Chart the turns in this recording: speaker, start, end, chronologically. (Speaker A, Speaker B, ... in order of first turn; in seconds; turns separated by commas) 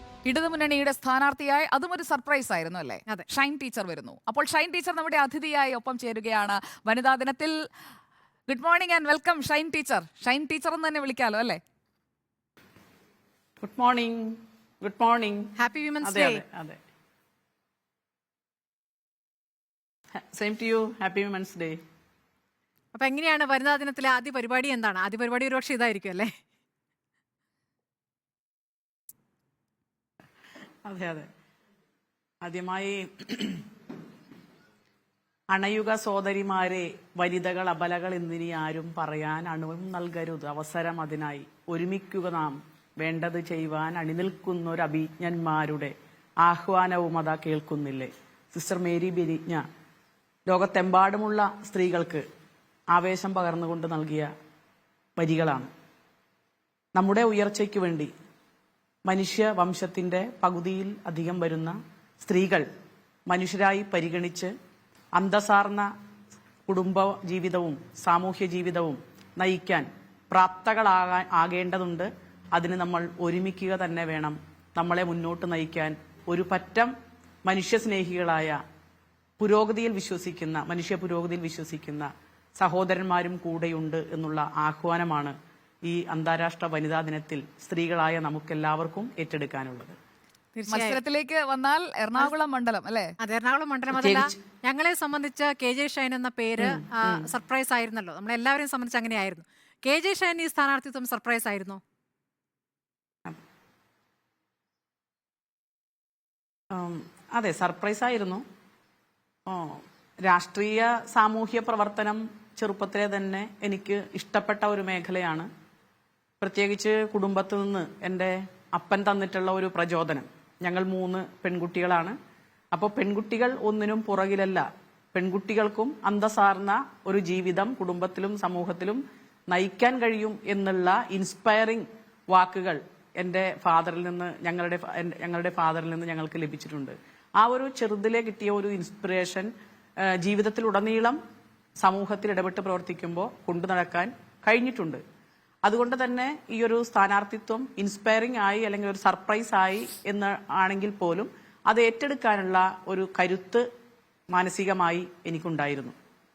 Speaker A: 0.2-7.5, Speaker A: 8.5-11.6, Speaker B: 13.6-16.8, Speaker C: 15.6-16.4, Speaker B: 20.3-21.8, Speaker C: 22.9-26.3, Speaker B: 30.8-31.3, Speaker B: 32.4-33.6, Speaker B: 35.5-49.6, Speaker B: 50.5-52.2, Speaker B: 52.9-54.3, Speaker B: 55.2-55.7, Speaker B: 56.9-58.1, Speaker B: 59.0-62.7, Speaker B: 63.3-64.5, Speaker B: 65.2-65.9, Speaker B: 66.7-76.9, Speaker B: 77.4-78.6, Speaker B: 79.4-89.9, Speaker C: 90.5-91.0, Speaker A: 90.7-93.1, Speaker C: 93.2-101.8, Speaker B: 93.9-94.3, Speaker B: 96.6-97.3, Speaker B: 106.7-108.4, Speaker B: 109.5-115.5, Speaker B: 116.4-122.2, Speaker B: 122.7-139.5, Speaker B: 140.0-141.2, Speaker B: 141.8-145.0, Speaker B: 145.6-153.6, Speaker B: 154.3-155.9